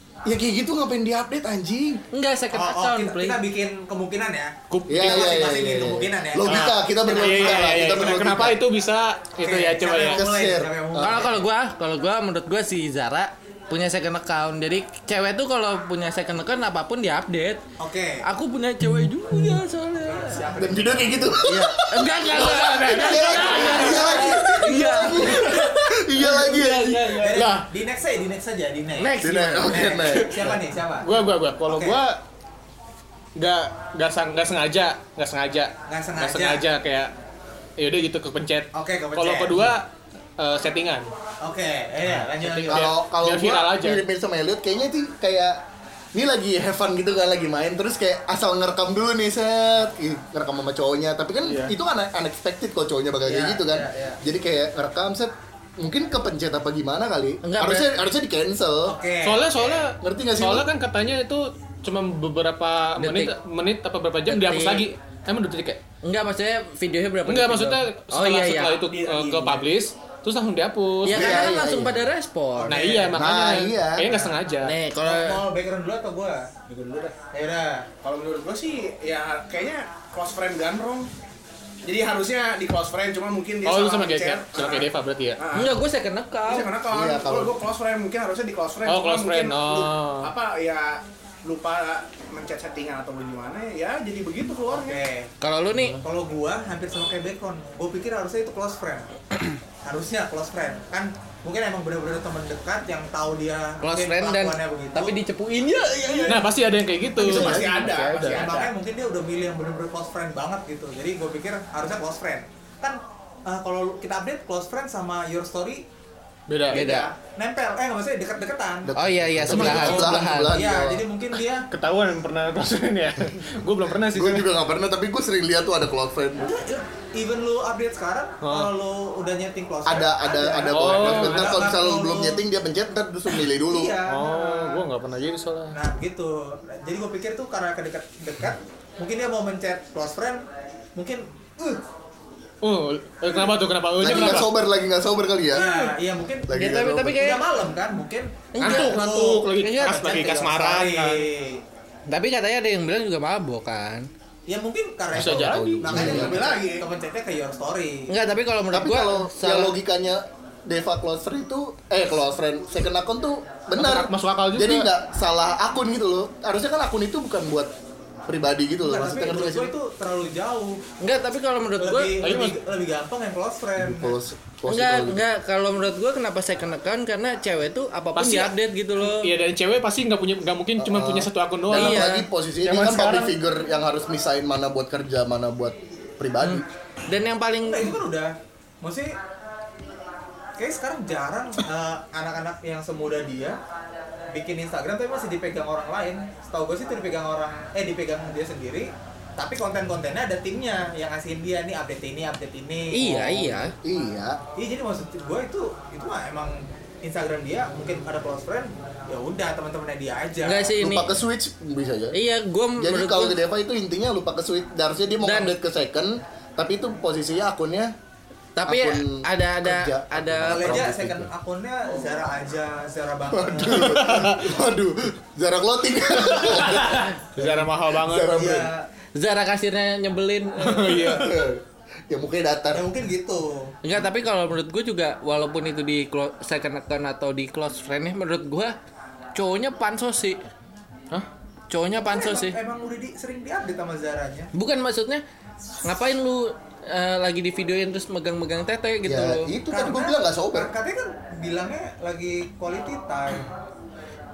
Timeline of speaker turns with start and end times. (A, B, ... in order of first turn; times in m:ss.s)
0:00.2-0:02.0 A
0:02.1-0:03.4 B
0:02.5-0:08.2 C
0:04.7-0:05.3 D
0:04.9-0:08.6 A
0:06.4-0:10.2 D
0:09.4-0:11.5 C
0:10.1-0:11.3 A
0:11.0-0:17.6 B
0:17.8-0:18.2 C
0:18.2-0:20.4 B
0:20.0-0:21.3 C
0:20.6-0:27.2 A
0:21.4-0:26.7 B
0:22.3-0:23.8 D
0:23.4-0:24.9 C
0:26.4-0:27.7 D
0:26.9-0:31.1 C
0:29.0-0:30.2 B
0:29.2-0:30.6 A
0:31.0-0:32.2 D
0:31.6-0:32.0 C
0:33.4-0:37.1 D
0:35.9-0:36.6 C
0:37.8-0:41.1 D
0:38.7-0:39.7 C
0:41.4-0:43.0 C
0:42.1-0:44.0 D
0:42.6-0:45.6 A
0:46.1-0:59.0 A
0:51.4-0:51.7 D
0:53.2-0:54.2 C
0:57.4-0:57.9 B
0:58.8-0:59.9 C
0:59.2-1:05.8 D
1:00.0-1:00.7 A
1:03.0-1:03.3 B
1:04.3-1:04.9 B
1:06.0-1:08.8 B
1:07.2-1:11.4 D
1:08.8-1:09.7 E
1:11.0-1:13.0 B
1:11.1-1:12.0 A
1:12.6-1:13.2 C
1:12.7-1:14.8 D
1:13.1-1:14.1 A
1:14.0-1:14.3 C
1:14.6-1:15.4 B
1:15.0-1:16.5 C
1:16.7-1:17.1 E
1:17.3-1:17.9 C
1:18.0-1:21.1 E
1:21.8-1:25.8 E
1:23.6-1:25.4 D
1:25.5-1:26.7 B
1:26.4-1:35.0 E
1:26.9-1:27.6 A
1:28.8-1:30.3 D
1:34.7-1:35.3 C
1:35.4-1:36.0 B
1:36.0-1:39.1 C
1:39.8-1:45.2 C
1:43.8-1:46.5 B
1:46.0-1:46.4 E
1:46.3-1:48.5 D
1:47.1-1:48.7 E
1:47.2-1:47.6 B
1:47.4-1:47.6 C
1:48.2-1:55.8 C
1:56.5-1:56.9 D
1:56.6-1:57.1 E
1:56.7-1:57.1 B
1:57.3-1:58.9 C
1:58.8-2:01.0 A
1:59.0-2:00.6 B
1:59.5-2:01.7 C
2:01.7-2:04.5 D
2:04.1-2:06.5 A
2:06.4-2:12.4 C
2:08.4-2:08.7 D
2:09.8-2:14.0 A
2:10.7-2:11.6 D
2:13.7-2:14.8 C
2:14.1-2:15.8 D
2:15.7-2:20.4 C
2:21.0-2:21.8 C
2:22.6-2:24.5 D
2:24.0-2:25.7 A
2:25.5-2:26.5 C
2:26.5-2:27.3 A
2:26.5-2:27.4 B
2:27.0-2:31.6 C
2:28.5-2:29.0 B
2:28.6-2:31.3 D
2:29.6-2:30.0 B
2:32.1-2:34.1 B
2:34.5-2:38.1 C
2:35.1-2:36.1 D
2:35.1-2:36.5 A
2:35.8-2:36.8 E
2:38.1-2:39.7 B
2:38.7-2:47.7 A
2:43.7-2:44.9 D
2:48.3-2:49.7 A
2:48.8-2:50.8 C
2:51.0-2:52.2 B
2:51.8-2:54.2 C
2:52.2-2:52.6 D
2:53.8-2:55.2 A
2:54.7-2:59.3 B
2:58.2-3:03.3 D
3:00.8-3:06.7 A
3:01.7-3:02.3 B
3:06.4-3:08.0 B
3:07.6-3:09.1 C
3:10.6-3:13.6 C
3:14.3-3:23.2 C
3:22.9-3:23.7 B
3:23.0-3:24.4 A
3:24.6-3:30.7 C
3:30.4-3:31.1 B
3:30.8-3:32.2 A
3:32.1-3:33.4 B
3:32.8-3:37.9 A
3:35.2-3:35.5 B
3:38.6-3:40.9 B
3:38.6-3:41.3 A
3:40.5-3:44.0 C
3:43.3-3:48.7 A
3:43.8-3:44.5 D
3:46.4-3:48.4 D
3:48.3-3:48.9 C
3:49.1-3:51.1 B
3:50.6-3:51.4 D
3:51.0-3:52.9 A
3:52.7-3:53.7 C
3:53.8-3:58.7 B
3:59.3-4:00.4 B
4:01.7-4:02.6 B
4:02.0-4:04.5 C
4:04.5-4:05.2 B
4:05.8-4:09.5 B
4:09.0-4:10.7 A
4:09.7-4:13.5 C